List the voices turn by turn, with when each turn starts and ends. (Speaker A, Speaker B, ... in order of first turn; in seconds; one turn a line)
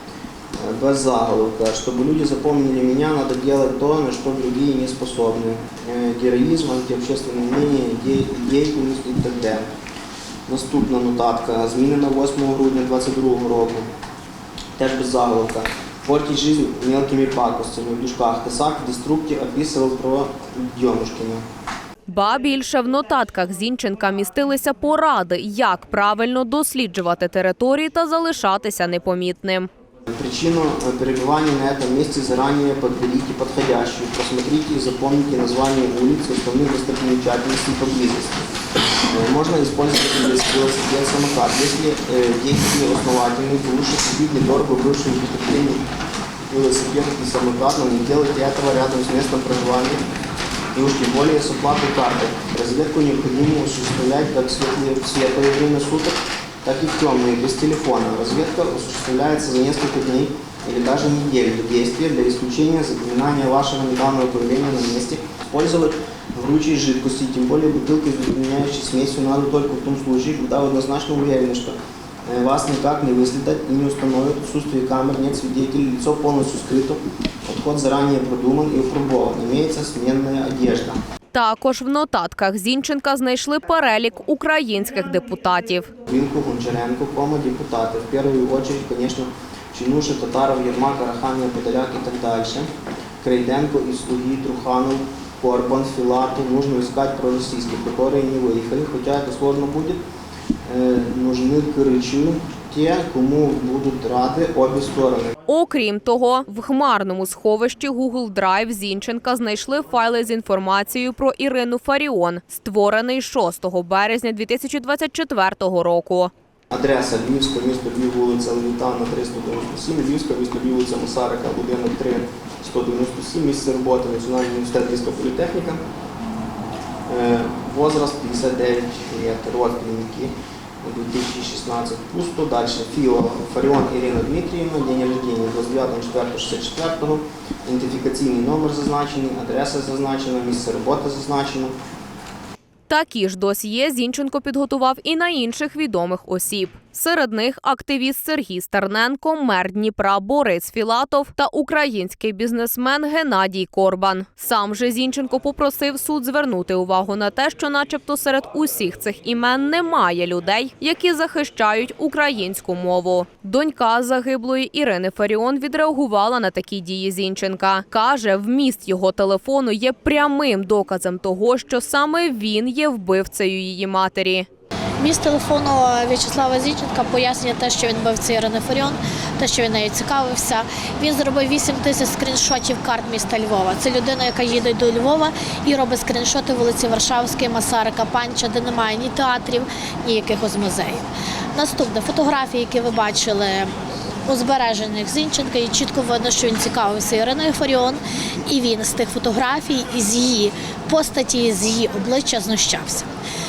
Speaker A: 0.6-9.7
Speaker A: 10.5-13.9
Speaker A: 14.8-21.4
Speaker B: 22.1-29.7
Speaker A: 30.1-38.4
Speaker A: 39.1-45.8
Speaker A: 46.5-50.0
Speaker A: 50.7-71.8
Speaker A: 72.3-81.0
Speaker B: 81.3-85.9
Speaker A: 86.1-92.7
Speaker A: 93.2-100.0
Speaker A: 100.7-105.3
Speaker B: 105.5-116.3
Speaker A: 116.7-125.8
Speaker A: 127.1-141.8
Speaker B: 142.9-174.5
Speaker C: 175.0-193.7
Speaker C: 194.3-203.1